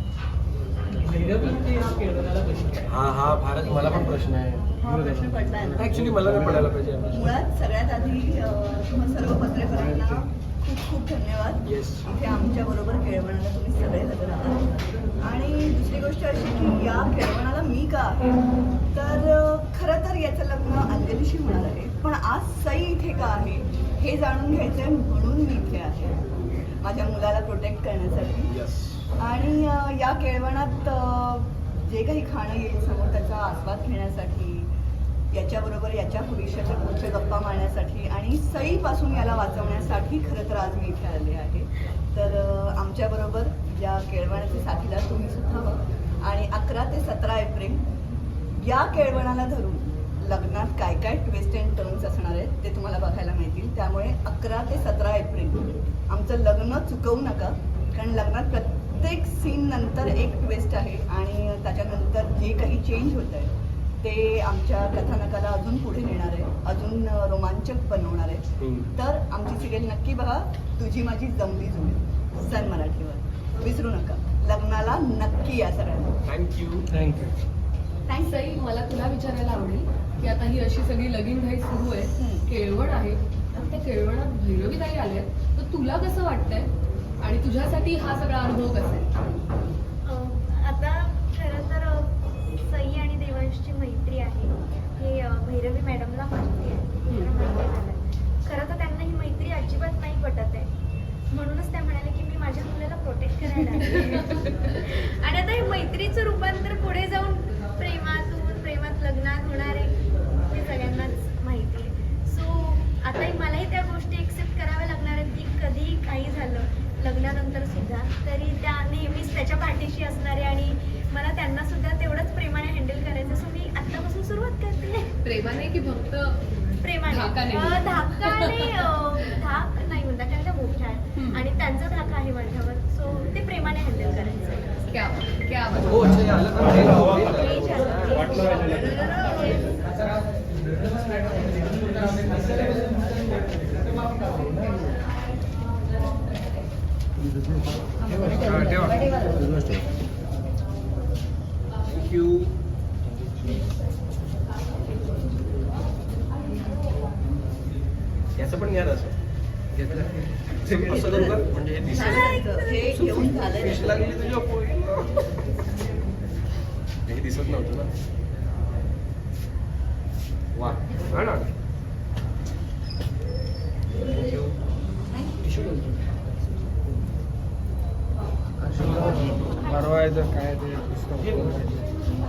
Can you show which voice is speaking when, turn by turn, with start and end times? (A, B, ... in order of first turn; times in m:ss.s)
0:01.0-0:02.9 A
0:02.9-0:04.7 B
0:04.8-0:06.0 C
0:05.8-0:07.3 B
0:07.1-0:14.7 C
0:11.7-0:12.1 B
0:15.2-0:18.4 C
0:18.9-0:28.5 C
0:28.5-0:29.1 B
0:29.2-0:34.7 C
0:35.3-0:47.8 C
0:48.6-1:08.4 C
1:08.6-1:08.9 B
1:09.0-1:16.1 C
1:16.3-1:16.9 B
1:17.0-1:17.3 A
1:18.1-1:18.6 C
1:18.2-1:29.1 D
1:22.2-1:22.5 C
1:30.0-1:40.7 E
1:41.3-1:49.9 E
1:44.0-1:44.6 D
1:50.5-2:05.1 E
2:05.2-2:06.4 D
2:06.8-2:14.8 E
2:07.0-2:08.9 D
2:11.2-2:11.4 D
2:14.9-2:16.1 D
2:15.8-2:18.3 B
2:16.9-2:19.8 E
2:28.4-2:28.9 D
2:28.4-2:29.0 B
2:31.9-2:32.5 B
2:38.4-2:39.2 B
2:39.7-2:42.4 B
2:40.7-2:44.1 C
2:41.8-2:43.2 E
2:42.9-2:45.2 B
2:47.1-2:47.9 B
2:50.6-2:51.5 B
2:54.1-2:54.5 B
2:55.5-2:55.9 A
2:59.7-3:01.7 F
3:01.2-3:01.5 A